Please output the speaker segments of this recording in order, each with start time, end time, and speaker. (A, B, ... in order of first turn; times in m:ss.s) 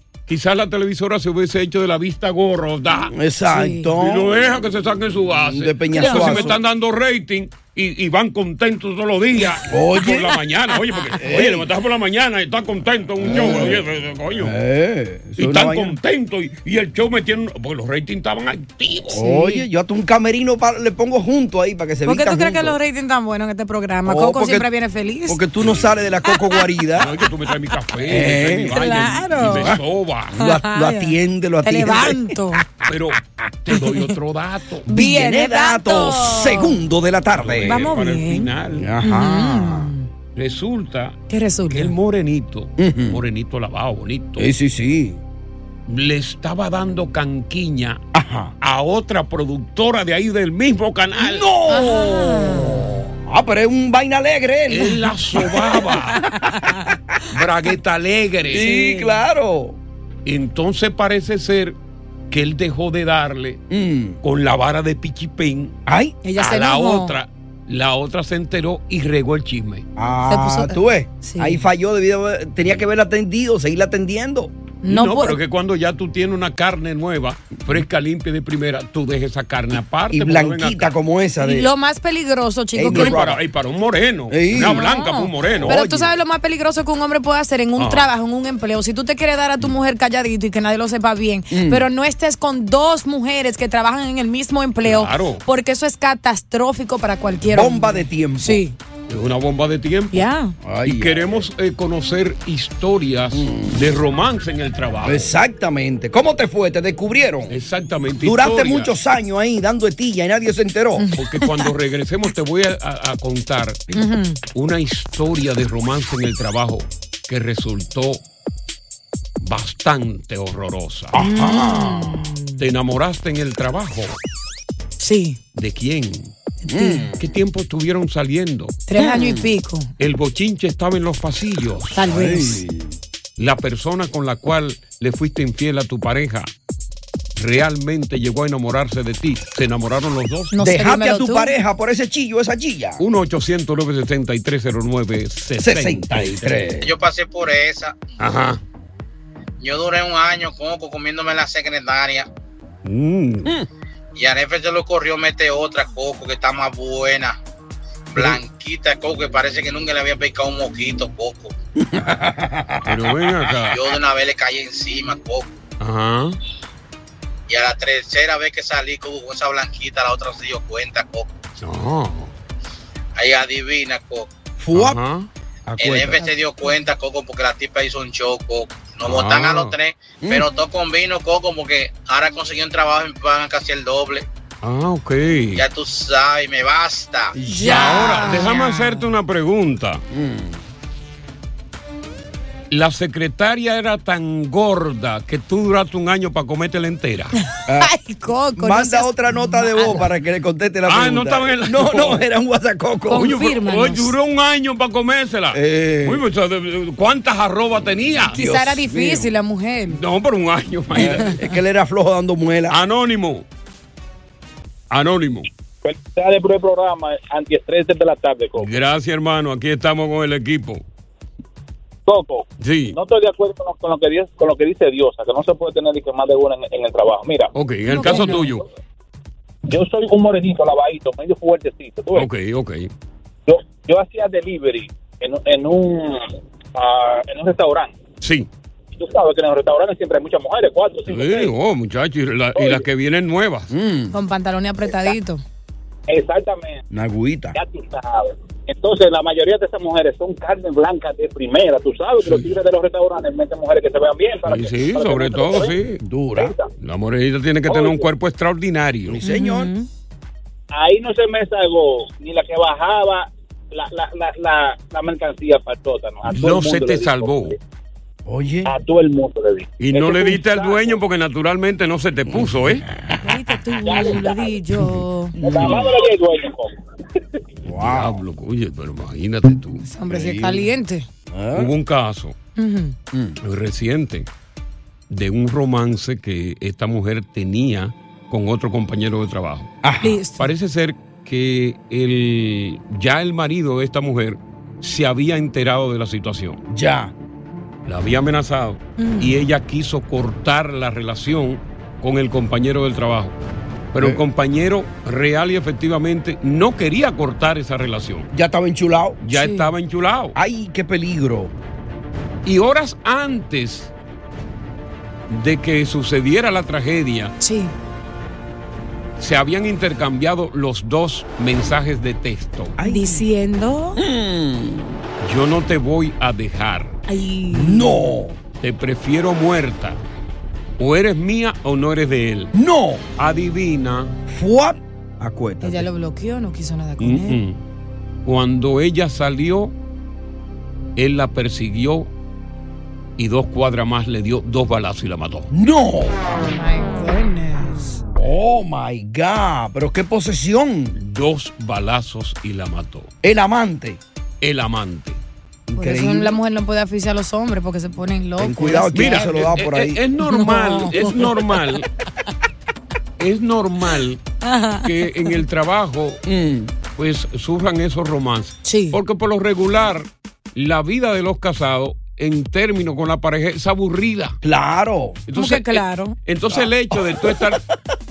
0:00.3-0:03.1 A
0:03.1-0:04.4 B
0:03.5-0:03.9 C
0:04.0-0:14.5 A
0:05.4-0:06.6 B
0:05.9-0:06.6 C
0:09.7-0:10.4 B
0:11.2-0:11.7 B
0:13.2-0:13.8 B
0:14.4-0:16.0 B
0:15.4-0:19.2 A
0:19.1-0:22.8 B
0:19.2-0:19.6 C
0:22.0-0:25.4 C
0:24.0-0:24.7 B
0:25.3-0:27.1 B
0:26.2-0:26.7 C
0:27.0-0:30.4 A
0:28.0-0:32.6 B
0:28.7-0:29.8 C
0:30.4-0:32.6 C
0:32.8-0:34.9 A
0:34.9-0:37.9 B
0:34.9-0:36.8 C
0:37.3-0:38.9 A
0:37.6-0:38.5 C
0:38.8-0:39.9 B
0:39.0-0:40.1 C
0:40.4-0:41.2 A
0:41.3-0:41.9 C
0:41.7-0:44.5 A
0:42.8-0:43.2 B
0:44.4-0:45.2 B
0:45.9-0:48.0 A
0:48.1-0:48.5 B
0:48.6-0:51.5 A
0:51.2-0:57.2 B
0:51.7-0:52.9 C
0:54.7-0:56.2 A
0:56.5-0:56.9 C
0:57.3-0:58.7 A
0:58.5-0:59.8 B
0:58.5-0:59.2 C
1:00.2-1:01.8 A
1:02.3-1:03.6 A
1:03.7-1:04.2 B
1:04.2-1:05.7 A
1:05.8-1:06.2 B
1:06.2-1:07.2 C
1:06.4-1:09.8 A
1:10.0-1:14.5 B
1:10.3-1:11.6 C
1:14.8-1:15.4 C
1:14.8-1:21.0 A
1:20.1-1:21.7 B
1:21.4-1:23.2 C
1:22.7-1:23.4 B
1:22.9-1:25.8 A
1:24.3-1:24.8 B
1:24.5-1:38.8 C
1:25.6-1:26.1 B
1:27.8-1:28.1 A
1:31.5-1:31.8 B
1:34.8-1:35.4 A
1:37.5-1:38.6 B
1:39.1-1:40.3 A
1:40.1-1:40.6 C
1:40.6-1:41.5 B
1:40.8-1:45.3 A
1:43.3-1:43.8 B
1:45.0-1:47.5 B
1:47.5-1:48.9 A
1:48.2-1:51.1 B
1:51.0-1:51.7 C
1:51.1-1:53.9 A
1:53.9-1:54.4 C
1:54.5-1:58.2 A
1:59.4-2:01.2 A
2:01.1-2:02.3 B
2:01.2-2:02.6 C
2:02.6-2:04.2 A
2:05.0-2:05.4 C
2:05.5-2:06.3 A
2:06.7-2:07.1 C
2:06.7-2:07.2 B
2:07.2-2:08.8 A
2:08.9-2:09.9 C
2:09.0-2:09.5 B
2:10.0-2:12.0 A
2:11.9-2:12.6 C
2:12.1-2:13.0 B
2:13.4-2:16.5 A
2:17.4-2:20.5 A
2:20.5-2:21.5 C
2:20.6-2:23.0 B
2:23.0-2:26.7 A
2:25.6-2:26.9 B
2:26.8-2:28.0 D
2:28.2-2:28.6 A
2:29.6-2:32.3 D
2:32.8-2:33.5 A
2:34.2-2:37.4 D
2:38.1-2:41.5 D
2:41.8-2:43.5 B
2:42.8-2:43.8 A
2:43.7-2:45.5 D
2:45.8-2:46.4 A
2:47.5-2:51.3 D
2:51.6-2:52.3 A
2:53.2-2:54.3 D
2:54.6-2:55.0 B
2:54.7-2:55.3 A
2:55.7-2:56.2 B
2:55.8-3:04.2 D
2:59.0-2:59.8 A
3:00.2-3:00.5 B
3:04.6-3:05.6 A
3:05.5-3:07.4 D
3:07.3-3:08.5 B
3:07.5-3:09.1 C
3:07.6-3:10.0 A
3:10.1-3:10.6 B
3:12.7-3:17.4 A
3:17.6-3:17.9 B
3:17.7-3:20.1 C
3:18.6-3:23.4 B
3:20.9-3:22.2 A
3:23.1-3:24.1 C
3:23.1-3:28.4 A
3:25.5-3:26.2 B
3:28.3-3:30.0 C
3:28.3-3:29.3 B
3:29.9-3:31.4 A
3:30.9-3:32.8 B
3:32.7-3:33.4 A
3:34.9-3:35.5 A
3:35.8-3:38.7 E
3:38.6-3:40.8 A
3:42.0-3:47.5 E
3:42.6-3:43.0 A
3:47.5-3:48.6 A
3:47.9-3:48.5 C
3:49.7-3:52.3 E
3:52.1-3:52.9 A
3:53.5-3:58.0 E
3:58.2-3:58.5 A
3:58.9-4:01.5 E
4:01.1-4:03.7 A
4:02.6-4:02.8 E
4:03.7-4:04.2 B
4:04.1-4:05.4 C
4:06.1-4:06.8 E
4:06.9-4:07.6 B
4:07.5-4:15.8 E
4:12.2-4:12.5 A
4:14.5-4:16.0 A
4:16.0-4:16.5 B
4:16.4-4:16.7 E
4:16.8-4:19.2 A
4:17.7-4:18.1 E
4:19.1-4:19.7 B
4:19.2-4:19.9 C
4:20.7-4:27.6 E
4:26.3-4:27.6 A
4:28.2-4:28.7 B
4:28.6-4:31.0 E
4:29.8-4:32.8 A
4:32.3-4:34.1 B
4:33.2-4:35.3 C
4:33.8-4:34.5 E
4:35.4-4:37.4 E
4:35.5-4:35.8 B
4:37.6-4:38.2 B
4:37.8-4:39.8 A
4:39.8-4:41.0 C
4:40.1-4:40.7 B
4:41.3-4:41.7 B
4:41.5-4:42.4 A
4:42.6-4:43.0 C
4:43.1-4:43.4 B
4:43.4-4:44.3 A
4:45.1-4:49.7 A
4:49.8-4:50.2 B
4:50.0-4:50.5 C
4:50.4-4:56.6 A
4:56.7-4:57.1 B
4:57.8-5:03.4 A
4:59.0-4:59.4 C
5:03.9-5:08.3 A
5:08.3-5:09.2 B
5:09.2-5:10.4 A
5:09.3-5:09.7 C
5:10.3-5:11.5 B
5:12.4-5:13.9 A
5:15.3-5:17.3 A
5:17.4-5:17.7 C
5:19.2-5:22.8 A
5:22.8-5:23.2 B
5:22.8-5:24.0 C
5:24.0-5:25.0 B
5:25.2-5:27.0 A
5:27.1-5:28.0 C
5:27.5-5:28.4 B
5:28.6-5:30.0 A
5:30.8-5:32.5 A
5:32.5-5:33.0 B
5:33.2-5:34.1 A
5:34.3-5:35.9 B
5:35.6-5:37.4 C
5:37.0-5:37.6 A
5:38.2-5:39.7 A
5:41.0-5:42.1 A
5:43.2-5:45.5 A
5:45.5-5:46.4 B
5:46.3-5:48.0 C
5:48.1-5:51.0 B
5:51.0-5:53.1 A
5:53.2-5:54.0 B
5:54.4-5:55.2 A
5:55.7-5:56.4 B
5:55.8-5:59.2 C
5:58.4-6:00.0 B
5:58.9-6:01.9 A
6:00.2-6:01.6 C
6:03.2-6:04.2 A
6:04.4-6:05.1 C
6:04.8-6:06.2 A
6:06.2-6:06.7 B
6:06.9-6:14.4 A
6:08.6-6:09.0 C
6:14.4-6:15.2 B
6:15.3-6:17.6 A
6:15.4-6:16.2 C
6:16.5-6:17.6 B